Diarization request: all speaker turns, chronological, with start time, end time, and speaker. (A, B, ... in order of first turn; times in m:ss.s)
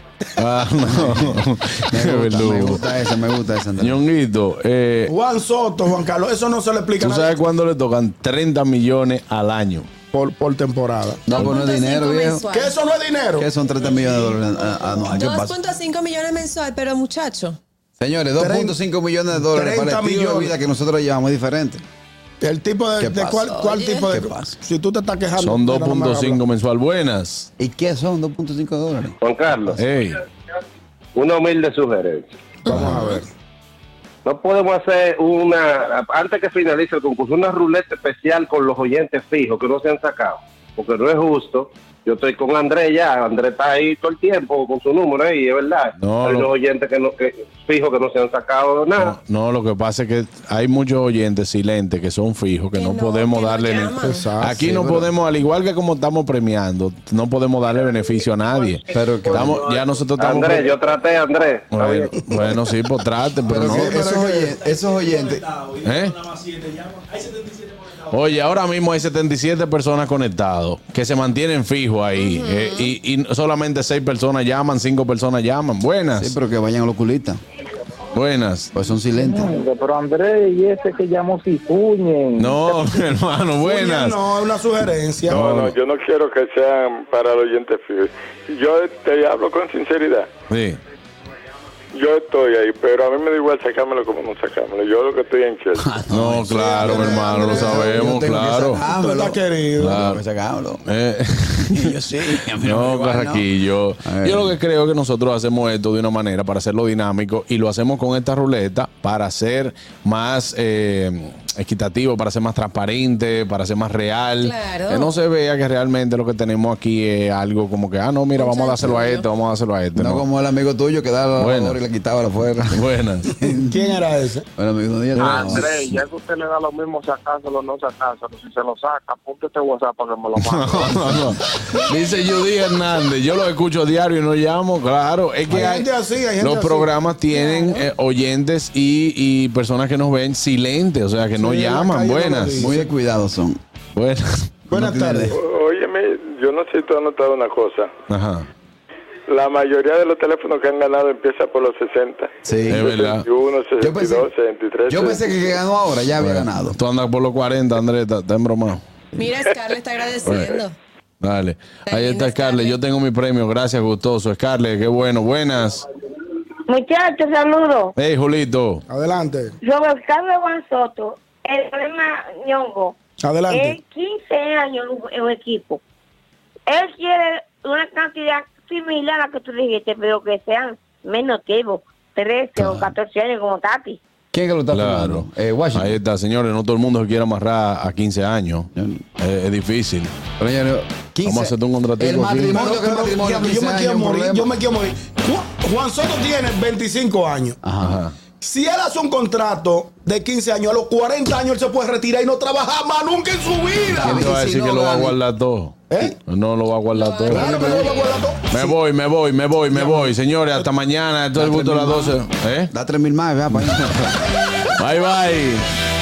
0:00.4-0:02.9 A
0:01.0-0:01.2 B
0:01.9-0:04.0 B
0:03.8-0:05.1 A
0:05.1-0:07.4 C
0:07.0-0:09.9 A
0:10.1-0:11.2 C
0:11.3-0:12.5 B
0:11.3-0:12.7 D
0:12.5-0:13.5 C
0:13.4-0:15.6 B
0:15.1-0:17.6 D
0:18.0-0:21.8 B
0:18.4-0:18.8 C
0:19.3-0:20.5 C
0:22.4-0:26.4 C
0:23.0-0:24.6 B
0:23.5-0:24.0 D
0:25.4-0:27.5 A
0:27.6-0:29.2 B
0:29.2-0:29.8 E
0:29.8-0:30.2 A
0:31.2-0:32.3 E
0:32.7-0:33.1 A
0:32.7-0:33.3 C
0:34.2-0:49.2 E
0:46.0-0:46.5 A
0:49.0-1:00.8 A
0:52.7-0:54.2 D
0:54.0-0:54.6 C
0:54.5-0:55.1 B
0:58.9-0:59.6 B
0:59.5-1:02.1 E
1:01.7-1:04.0 A
1:03.4-1:05.4 B
1:03.5-1:07.6 C
1:05.8-1:06.2 A
1:08.1-1:16.4 A
1:12.2-1:12.9 D
1:16.2-1:17.4 B
1:18.1-1:18.7 A
1:18.7-1:19.6 B
1:19.2-1:23.0 F
1:22.4-1:24.2 A
1:23.6-1:25.5 C
1:25.3-1:30.3 G
1:30.5-1:30.8 A
1:31.9-1:35.8 G
1:35.8-1:40.8 B
1:36.1-1:38.8 A
1:36.6-1:38.1 C
1:38.8-1:40.1 C
1:39.8-1:40.2 A
1:40.9-2:00.3 A
1:41.6-1:43.5 B
1:44.0-1:44.6 B
1:54.4-1:55.0 D
1:58.4-1:59.2 D
2:00.0-2:03.9 B
2:01.4-2:01.8 A
2:02.7-2:03.3 A
2:03.6-2:04.5 C
2:04.6-2:05.8 B
2:05.2-2:06.0 A
2:05.2-2:11.3 F
2:10.3-2:22.6 A
2:15.5-2:16.9 C
2:21.4-2:22.9 C
2:22.6-2:23.6 B
2:23.9-2:24.5 A
2:24.7-2:25.4 C
2:24.7-2:25.4 B
2:25.3-2:27.9 G
2:28.1-2:28.5 A
2:29.3-2:35.4 G
2:32.4-2:32.9 B
2:32.7-2:33.3 A
2:33.8-2:34.3 B
2:34.9-2:36.8 B
2:36.2-2:38.8 A
2:39.2-2:40.8 D
2:40.2-2:40.6 A
2:41.2-2:45.8 A
2:41.9-2:42.7 D
2:46.7-2:47.9 H
2:48.0-2:48.8 A
2:48.9-2:49.6 C
2:49.6-2:53.0 H
2:53.2-2:53.8 C
2:53.5-2:55.8 H
2:56.7-3:04.0 H
3:02.6-3:02.9 B
3:04.3-3:06.0 B
3:04.7-3:10.1 A
3:08.7-3:09.0 B
3:10.4-3:14.5 B
3:11.2-3:12.6 A
3:12.5-3:17.6 C
3:17.6-3:18.0 B
3:17.8-3:18.2 A
3:18.4-3:24.3 C
3:23.9-3:25.2 B
3:24.1-3:32.7 A
3:25.9-3:26.2 C
3:26.9-3:28.1 D
3:27.3-3:28.8 C
3:29.7-3:30.7 C
3:31.4-3:32.2 B
3:32.7-3:33.9 B
3:33.5-3:34.1 A
3:34.8-3:35.6 A